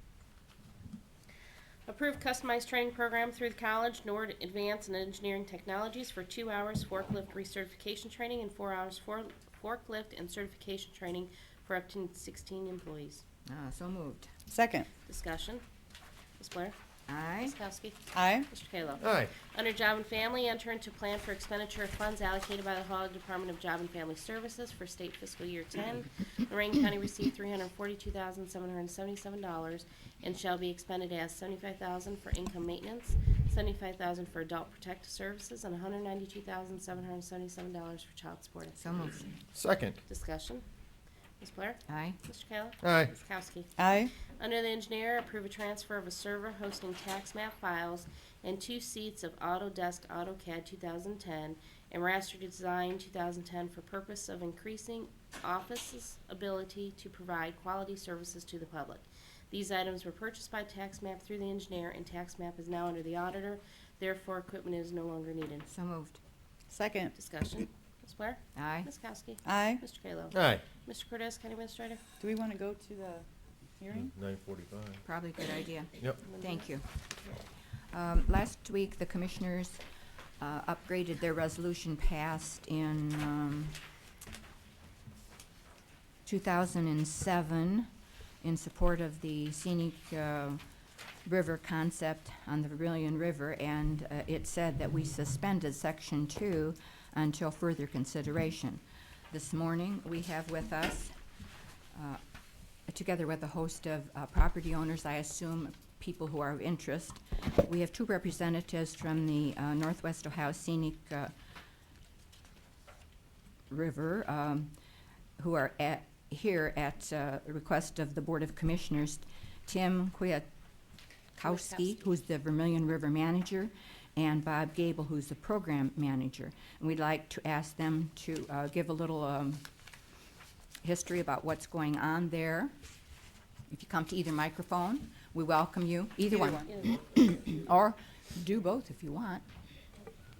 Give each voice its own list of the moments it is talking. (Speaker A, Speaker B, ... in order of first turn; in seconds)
Speaker A: 1.9-13.2, 15.1-15.6, 16.4-16.7, 17.4-39.2, 40.1-40.6, 41.4-43.7, 44.3-65.7, 67.1-72.0, 76.2-76.7, 121.4-122.0, 136.3-137.0
Speaker B: 13.5-14.3, 17.1-17.6, 38.8-39.4, 41.9-42.2, 65.7-66.2, 68.5-68.9, 75.0-76.9, 77.9-79.8, 80.4-83.8, 86.2-87.9, 88.4-90.6, 91.2-101.1, 101.9-102.2, 102.9-111.3, 113.7-114.7, 115.4-120.5, 121.3-129.6, 130.8-132.7, 133.7-139.4
Speaker C: 14.5-14.9, 18.1-18.5, 43.8-44.1, 66.7-67.1, 69.4-69.8, 72.2-73.2, 73.8-74.1
Speaker D: 19.0-19.3, 39.5-40.0, 42.8-43.1, 70.3-70.6, 73.9-75.0